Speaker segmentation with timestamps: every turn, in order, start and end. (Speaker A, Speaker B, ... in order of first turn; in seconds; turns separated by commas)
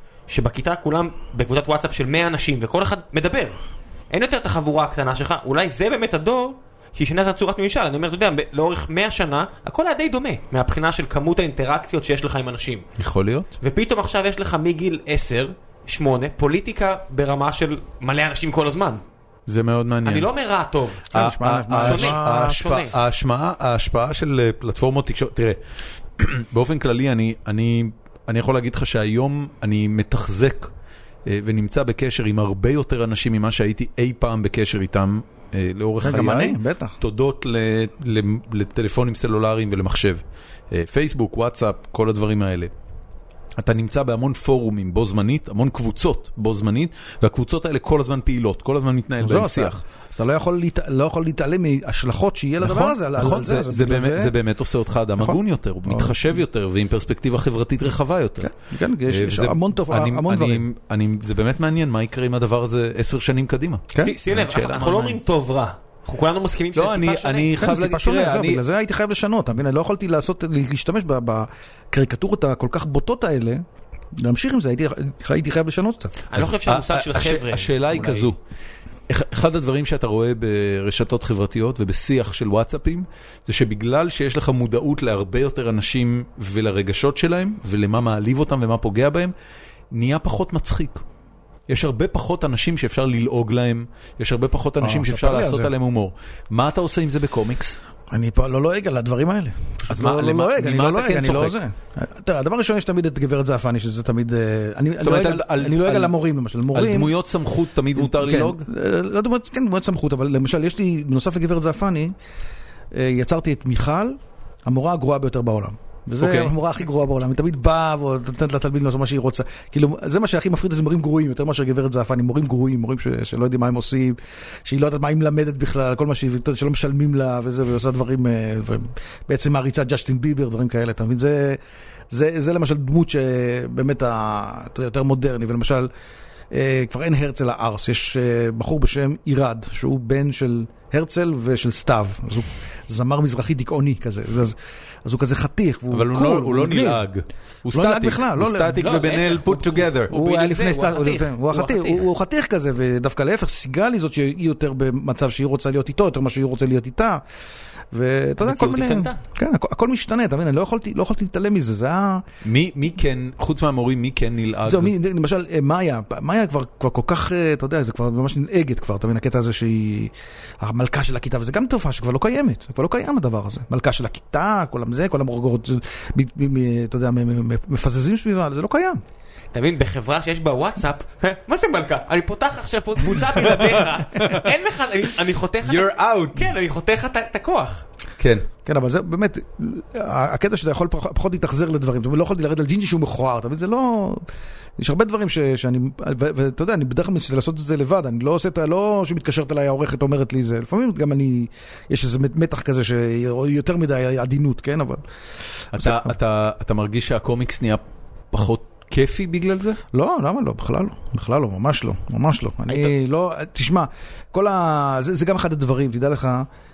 Speaker A: 0.3-3.6, Speaker A: 4.1-12.8, Speaker B: 13.0-13.5, Speaker A: 13.6-19.0, Speaker B: 19.5-20.3, Speaker A: 20.0-21.1, Speaker C: 21.1-22.6, Speaker B: 21.1-25.6, Speaker A: 21.8-22.9, Speaker B: 26.2-30.7, Speaker B: 31.2-42.7, Speaker C: 36.0-37.0, Speaker B: 43.6-49.8, Speaker C: 49.2-54.3, Speaker B: 52.6-58.5, Speaker C: 55.2-56.4, Speaker C: 58.4-60.6, Speaker B: 59.1-65.2, Speaker C: 63.9-64.2, Speaker A: 64.0-67.5, Speaker B: 66.7-68.6, Speaker C: 67.5-73.6, Speaker C: 74.2-76.2, Speaker A: 76.3-78.3, Speaker B: 76.3-78.3, Speaker B: 79.1-89.3, Speaker B: 89.9-91.0, Speaker B: 91.7-97.8, Speaker C: 94.8-95.7, Speaker C: 98.1-107.1, Speaker B: 99.9-101.6, Speaker B: 105.0-106.2, Speaker B: 106.7-108.7, Speaker C: 107.9-112.1, Speaker C: 112.9-135.9, Speaker B: 116.2-116.5, Speaker C: 136.5-147.0, Speaker B: 145.9-150.2, Speaker C: 147.7-149.0, Speaker A: 148.8-152.1, Speaker C: 150.1-157.2, Speaker C: 157.9-162.2, Speaker A: 158.4-159.2, Speaker B: 162.4-164.9, Speaker C: 164.7-179.0, Speaker A: 179.5-187.8, Speaker B: 183.2-184.5, Speaker B: 185.6-186.5, Speaker B: 188.2-188.5, Speaker C: 188.6-194.2, Speaker C: 194.8-205.0, Speaker B: 205.7-209.8, Speaker C: 205.8-206.1, Speaker C: 209.9-216.5